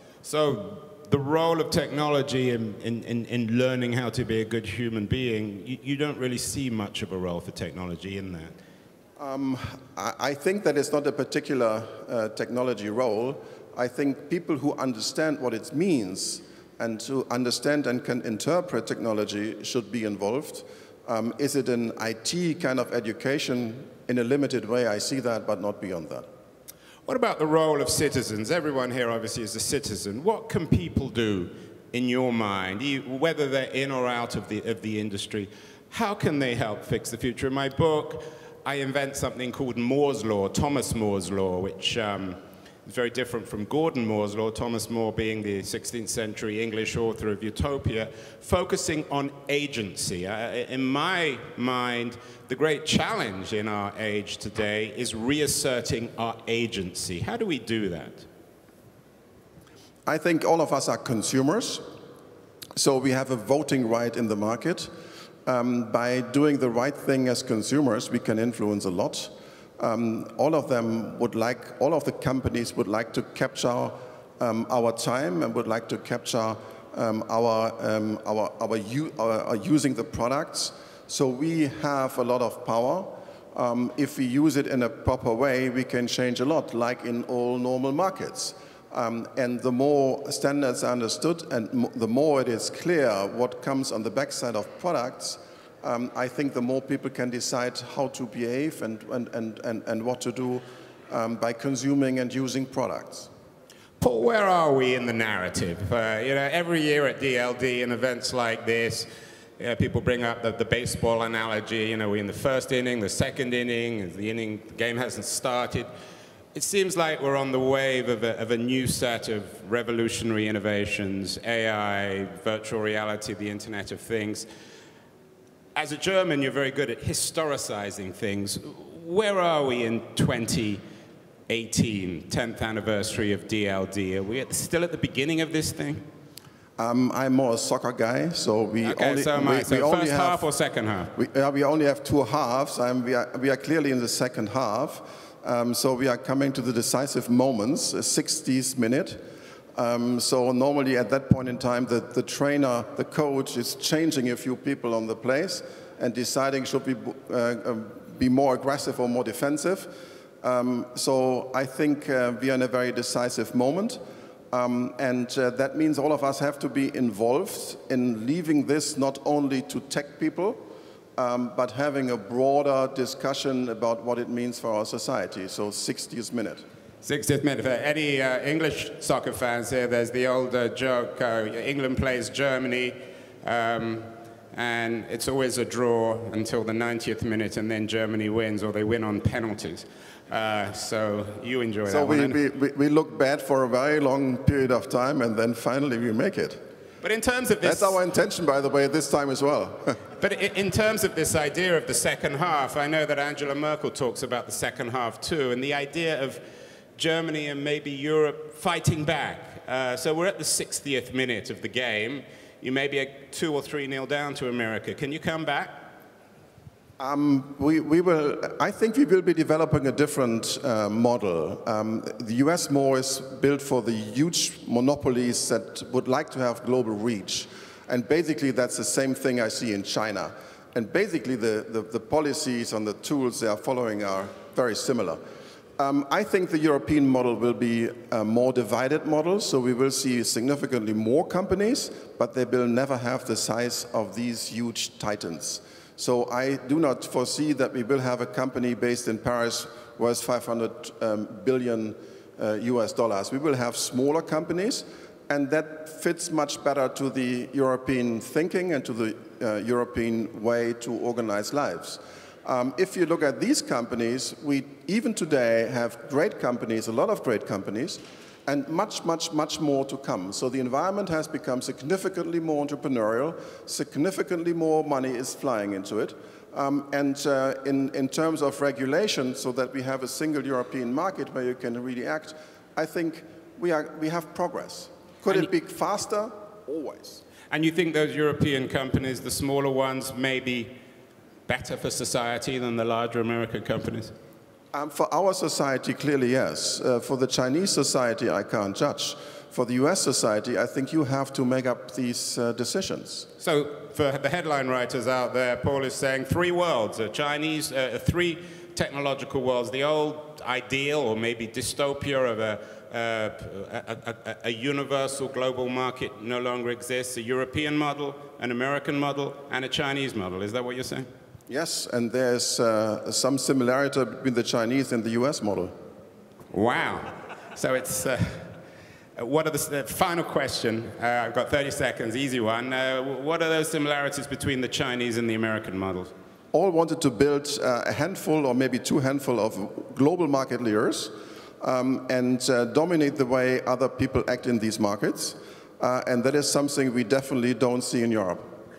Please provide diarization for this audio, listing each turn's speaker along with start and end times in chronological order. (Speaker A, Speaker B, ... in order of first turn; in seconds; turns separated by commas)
Speaker A: 0.2-8.5, Speaker B: 9.2-26.3, Speaker A: 27.1-58.3, Speaker B: 60.1-61.9, Speaker B: 62.8-64.9, Speaker B: 65.5-103.3, Speaker A: 104.0-115.9, Speaker A: 116.5-124.5, Speaker A: 125.7-130.8, Speaker A: 131.5-136.0, Speaker B: 136.8-140.4, Speaker A: 138.8-141.1, Speaker B: 141.1-164.0, Speaker B: 164.5-170.6, Speaker B: 171.2-176.6, Speaker A: 177.0-192.4, Speaker B: 191.9-196.6, Speaker A: 197.0-198.0, Speaker B: 197.6-200.0, Speaker A: 200.2-206.4, Speaker A: 206.9-215.9, Speaker B: 217.0-235.2, Speaker B: 235.8-287.2, Speaker A: 287.5-290.8, Speaker A: 291.5-294.1, Speaker B: 294.7-303.3, Speaker A: 303.4-321.1, Speaker B: 321.5-325.7, Speaker A: 326.5-328.6, Speaker A: 329.2-336.1, Speaker B: 336.5-348.5